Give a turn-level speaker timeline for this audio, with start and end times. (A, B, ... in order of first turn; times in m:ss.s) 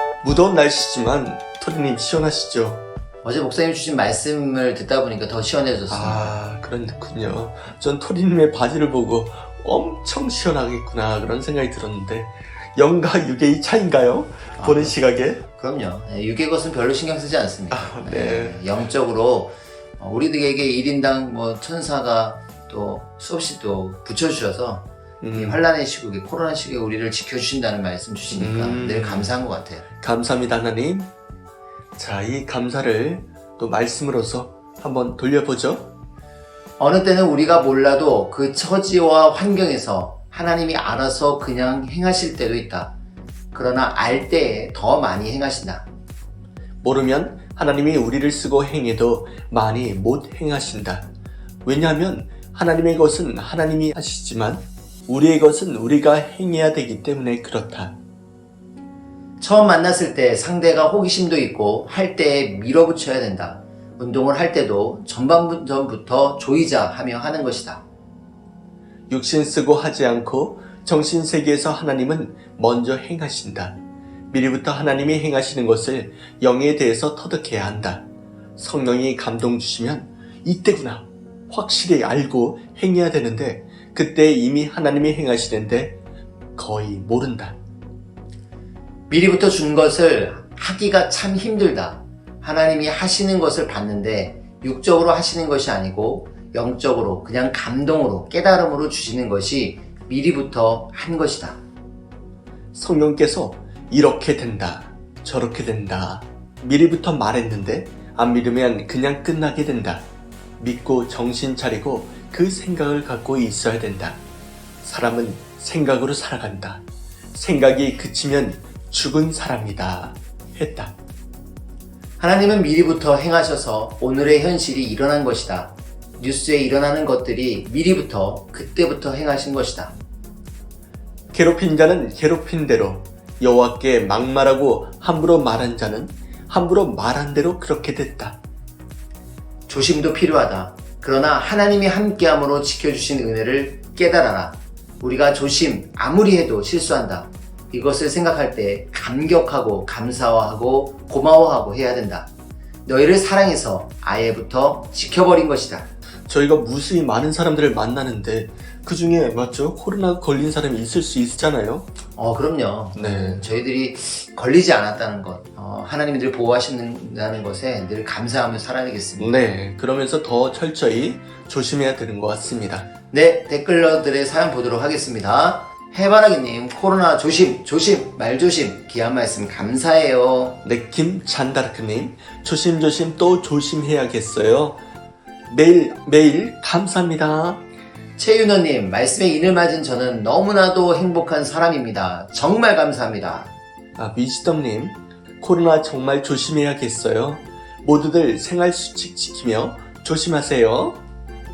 0:00.2-0:02.8 A
0:03.2-0:06.4 B
0:05.9-0:15.4 A
0:14.6-0:15.0 B
0:15.5-0:29.8 B
0:17.7-0:18.6 A
0:25.2-0:25.6 A
0:28.4-0:29.4 A
0:30.0-0:31.1 A
0:32.0-0:35.9 A
0:36.8-0:42.9 B
0:43.5-0:45.9 B
0:46.8-0:51.1 A
0:51.6-0:58.0 A
0:59.4-1:07.8 B
1:09.1-1:13.8 A
1:14.3-1:26.0 A
1:26.6-1:27.6 A
1:29.1-1:41.6 B
1:42.7-1:50.1 A
1:50.6-1:54.2 A
1:54.8-2:01.0 A
2:02.2-2:10.0 B
2:11.3-2:18.4 A
2:19.7-2:32.3 B
2:32.9-2:35.9 B
2:36.3-2:41.9 A
2:42.2-2:49.4 B
2:42.9-2:43.5 A
2:49.2-2:52.9 A
2:53.1-3:00.6 B
3:00.6-3:04.8 A
3:05.5-3:07.6 A
3:08.2-3:13.5 B
3:14.0-3:21.0 A